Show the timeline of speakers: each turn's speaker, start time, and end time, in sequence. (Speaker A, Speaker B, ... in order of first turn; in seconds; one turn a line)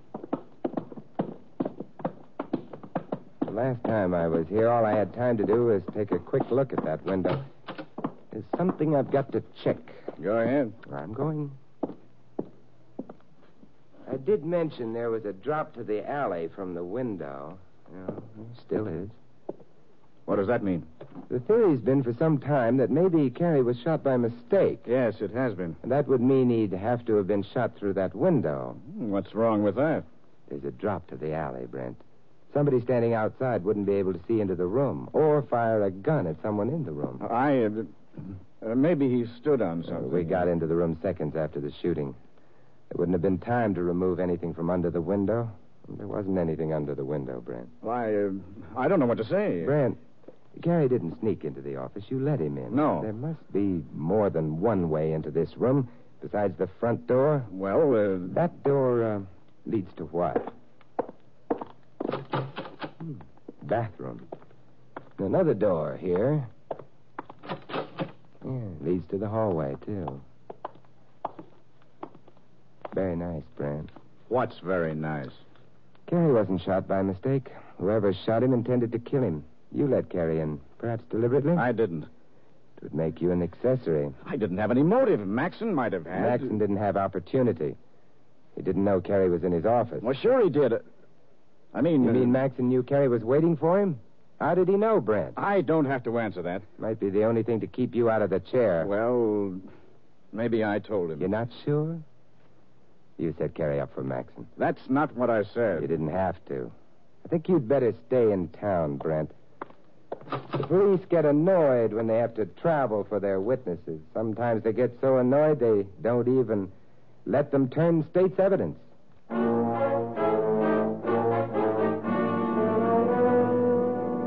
Speaker A: 3.4-7.5
Speaker A: 8.3-10.1
Speaker B: 10.2-10.8
Speaker A: 10.8-11.6
Speaker A: 14.1-19.2
Speaker B: 20.3-20.9
Speaker A: 21.3-24.9
Speaker B: 24.9-25.8
Speaker A: 25.8-28.8
Speaker B: 28.8-30.1
Speaker A: 30.5-37.2
Speaker B: 37.2-40.5
Speaker A: 39.9-42.2
Speaker A: 42.9-47.7
Speaker B: 47.8-49.8
Speaker A: 49.6-50.0
Speaker A: 50.6-57.5
Speaker B: 52.7-53.1
Speaker B: 57.5-58.4
Speaker A: 58.3-60.5
Speaker A: 63.6-64.3
Speaker A: 65.2-66.5
Speaker A: 68.4-70.2
Speaker A: 72.9-73.9
Speaker B: 74.3-75.4
Speaker A: 76.1-81.7
Speaker B: 81.6-82.1
Speaker A: 82.8-84.2
Speaker B: 84.2-86.5
Speaker A: 86.1-87.8
Speaker A: 88.6-90.1
Speaker B: 90.0-90.8
Speaker B: 91.7-92.4
Speaker A: 92.0-95.4
Speaker B: 95.4-96.7
Speaker A: 96.8-98.9
Speaker B: 98.8-99.7
Speaker B: 100.3-101.3
Speaker A: 101.2-102.0
Speaker A: 103.2-104.5
Speaker B: 104.6-105.9
Speaker A: 105.8-106.7
Speaker A: 107.2-109.3
Speaker A: 110.4-116.7
Speaker A: 117.2-118.8